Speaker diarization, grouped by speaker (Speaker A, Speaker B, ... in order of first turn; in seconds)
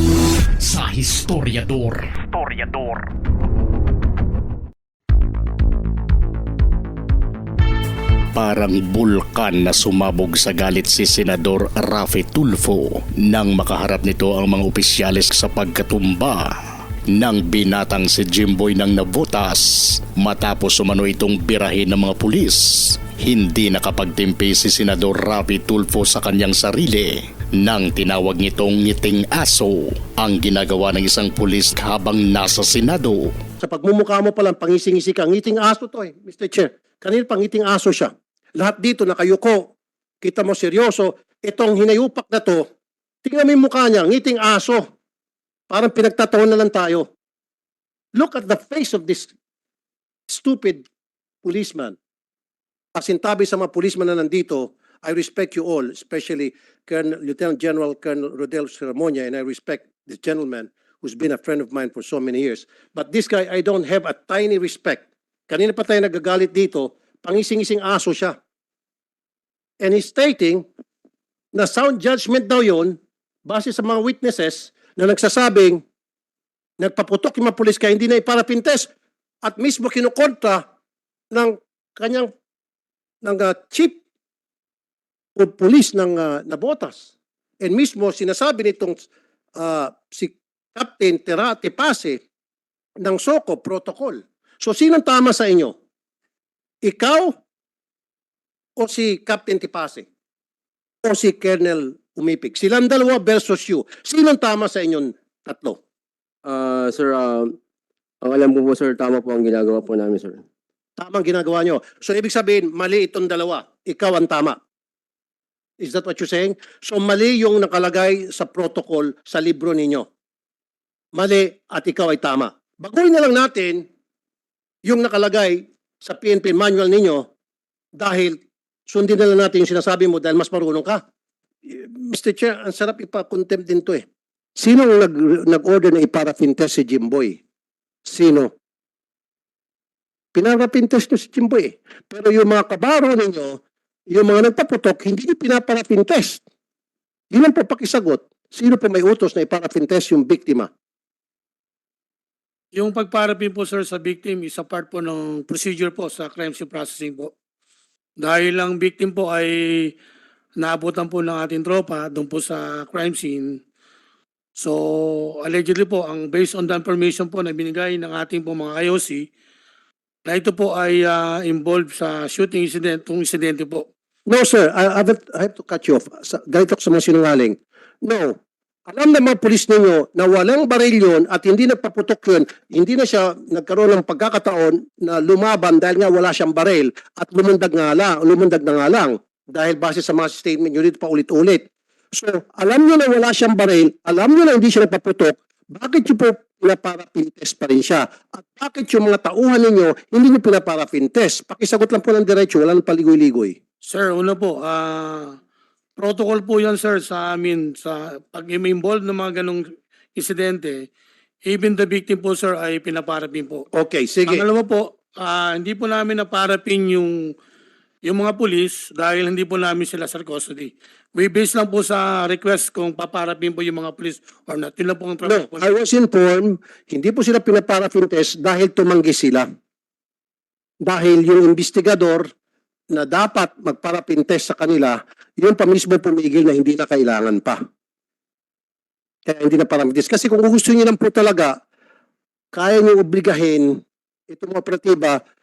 Speaker A: 0.6-3.1, 8.3-16.5, 17.1-33.3
Speaker B: 33.6-42.6, 43.2-44.9, 45.7-47.1, 48.1-49.3, 50.3-50.8, 51.4-52.0, 52.9-68.3, 69.8-70.7, 71.5-75.8, 76.8-78.9, 79.4-80.6, 81.3-82.3, 83.2-84.0, 85.3-87.1, 87.6-89.0, 89.6-92.2, 93.0-95.7, 96.8-97.3, 98.8-100.0, 101.0-105.8, 111.0-114.6, 115.8-120.1, 121.1-123.8, 124.8-127.3, 128.0-131.0, 131.7-134.0, 134.6-137.4, 138.1-138.5, 140.3-143.6, 144.1-146.4, 147.3-150.7, 174.3-178.3, 178.9-203.6, 213.7-214.4, 225.2-229.4, 230.8-232.3, 232.9-237.6, 239.2-241.6, 242.5-245.2
Speaker C: 106.4-107.5, 108.2-110.4
Speaker D: 152.7-157.3, 158.2-159.9, 160.6-163.6, 164.6-169.2, 170.2-173.9, 203.9-205.3, 206.0-209.6, 210.2-210.9, 211.4-213.6, 214.2-217.2, 218.0-225.7